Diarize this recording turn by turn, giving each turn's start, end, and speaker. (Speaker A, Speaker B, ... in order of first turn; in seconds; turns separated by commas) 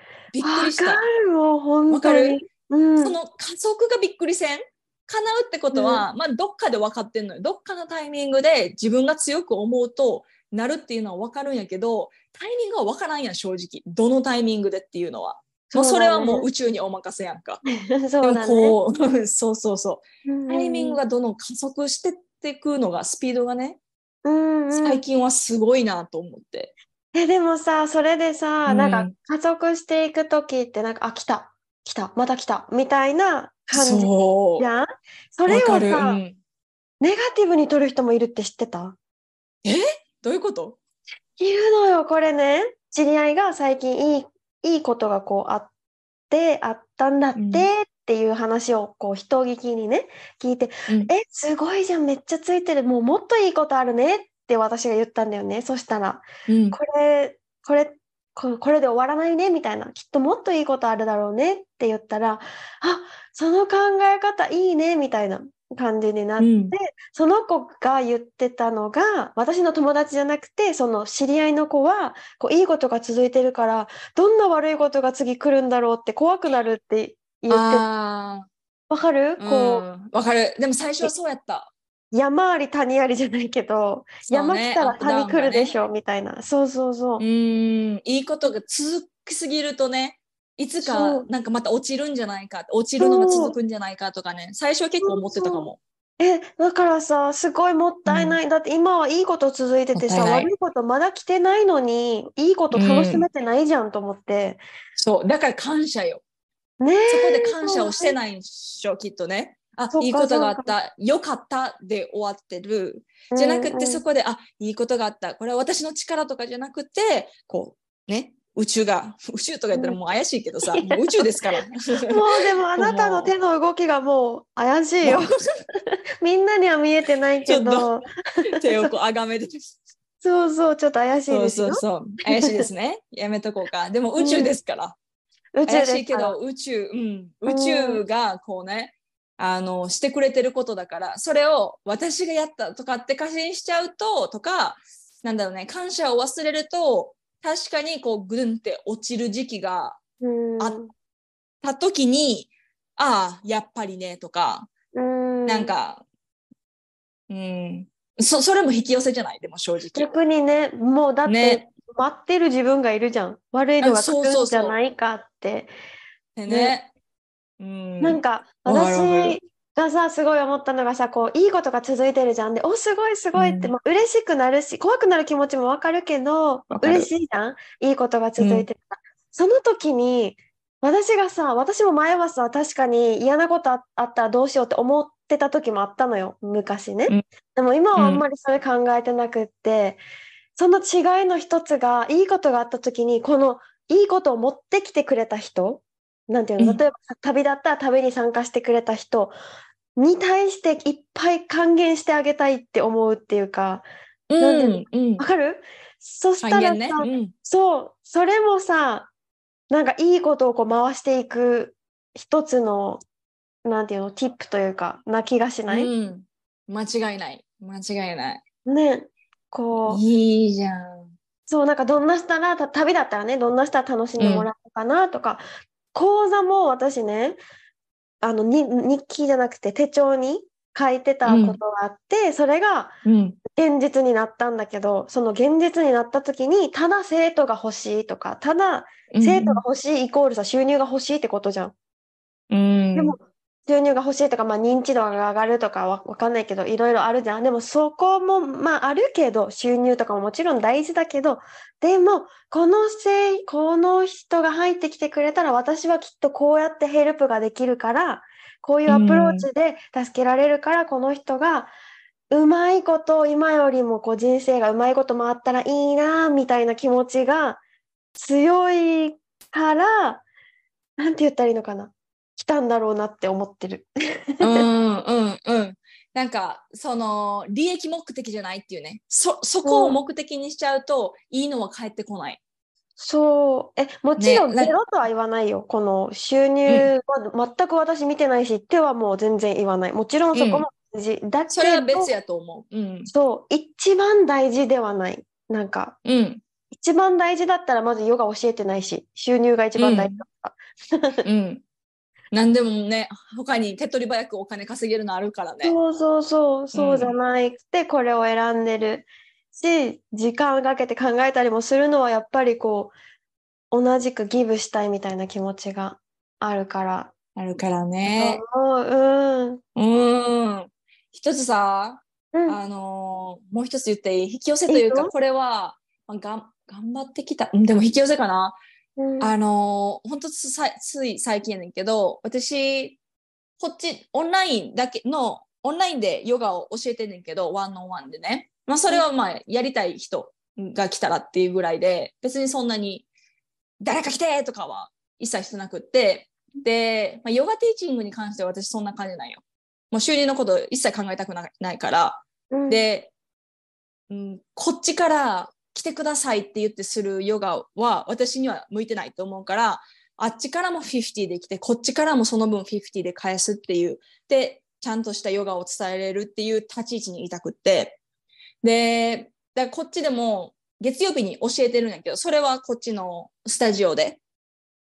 Speaker A: 0.3-1.1, Speaker B: 0.4-3.2, Speaker A: 1.9-2.4, Speaker A: 3.0-17.6, Speaker B: 5.7-6.1, Speaker B: 15.7-16.5, Speaker B: 17.7-18.8, Speaker A: 18.2-23.8, Speaker B: 20.3-21.0, Speaker B: 24.2-25.0, Speaker A: 24.8-26.7, Speaker B: 27.1-36.2, Speaker A: 28.7-29.1, Speaker A: 33.7-34.6, Speaker A: 35.5-36.4, Speaker B: 37.0-39.0, Speaker A: 39.6-40.8, Speaker B: 41.4-45.7, Speaker B: 46.3-77.8, Speaker A: 47.4-47.7, Speaker A: 56.5-56.8, Speaker A: 66.4-66.8, Speaker A: 77.5-78.5, Speaker B: 78.9-79.8, Speaker A: 79.4-81.7, Speaker B: 82.1-87.2, Speaker A: 84.3-85.7, Speaker A: 87.2-95.8, Speaker B: 90.8-91.3, Speaker B: 93.0-93.6, Speaker B: 95.0-104.6, Speaker A: 98.1-98.4, Speaker A: 100.0-100.5, Speaker A: 102.7-103.3, Speaker A: 105.0-106.2, Speaker B: 106.8-108.2, Speaker A: 107.1-122.2, Speaker B: 109.9-110.7, Speaker B: 113.3-114.0, Speaker B: 120.7-121.5, Speaker B: 122.1-125.4, Speaker A: 122.8-123.3, Speaker A: 125.0-125.4, Speaker B: 126.2-128.1, Speaker A: 127.5-128.0, Speaker A: 128.6-129.7, Speaker B: 130.2-132.7, Speaker A: 131.3-135.0, Speaker B: 134.2-134.5, Speaker B: 135.6-136.4, Speaker A: 135.7-150.0, Speaker B: 137.5-138.0, Speaker B: 150.2-150.9, Speaker A: 151.6-154.7, Speaker B: 154.9-155.7, Speaker A: 155.5-156.0, Speaker A: 157.3-160.1, Speaker B: 159.9-165.7, Speaker A: 161.3-161.7, Speaker A: 163.8-164.8, Speaker A: 166.4-166.9, Speaker B: 166.5-166.8, Speaker A: 167.6-169.4, Speaker B: 168.0-190.0, Speaker A: 173.4-173.7, Speaker A: 176.7-177.1, Speaker A: 178.4-178.7, Speaker A: 188.0-188.2, Speaker B: 190.6-199.3, Speaker B: 200.0-203.8, Speaker A: 204.3-205.2, Speaker B: 204.4-209.1, Speaker A: 206.4-207.3, Speaker B: 209.7-213.0, Speaker B: 213.7-215.9, Speaker A: 215.7-218.4, Speaker B: 218.7-220.0, Speaker A: 219.8-221.1, Speaker B: 221.5-227.4, Speaker A: 224.2-224.5, Speaker B: 228.2-233.0, Speaker A: 231.2-231.6, Speaker A: 233.1-233.4, Speaker B: 233.5-241.7, Speaker A: 239.1-239.6, Speaker A: 242.5-243.2, Speaker B: 242.9-261.7, Speaker A: 258.9-259.5, Speaker B: 262.3-267.6, Speaker B: 268.2-270.2, Speaker B: 271.0-274.7, Speaker A: 274.4-282.4, Speaker B: 279.6-280.0, Speaker B: 283.0-292.1, Speaker A: 284.2-284.8, Speaker A: 290.3-290.7, Speaker A: 291.5-293.1, Speaker B: 293.1-296.0, Speaker A: 296.1-296.4, Speaker B: 296.8-301.2, Speaker A: 299.8-300.2, Speaker A: 301.2-301.6, Speaker A: 302.3-305.8, Speaker B: 305.6-312.9, Speaker A: 306.7-307.1, Speaker B: 313.7-317.1, Speaker A: 317.4-318.4, Speaker B: 318.0-319.6, Speaker A: 319.8-328.6, Speaker B: 322.3-322.6, Speaker B: 324.7-325.1, Speaker B: 329.0-329.3, Speaker A: 329.2-333.0, Speaker A: 333.6-343.1, Speaker A: 343.8-353.1, Speaker B: 352.5-352.9, Speaker A: 354.1-368.0, Speaker A: 368.6-374.2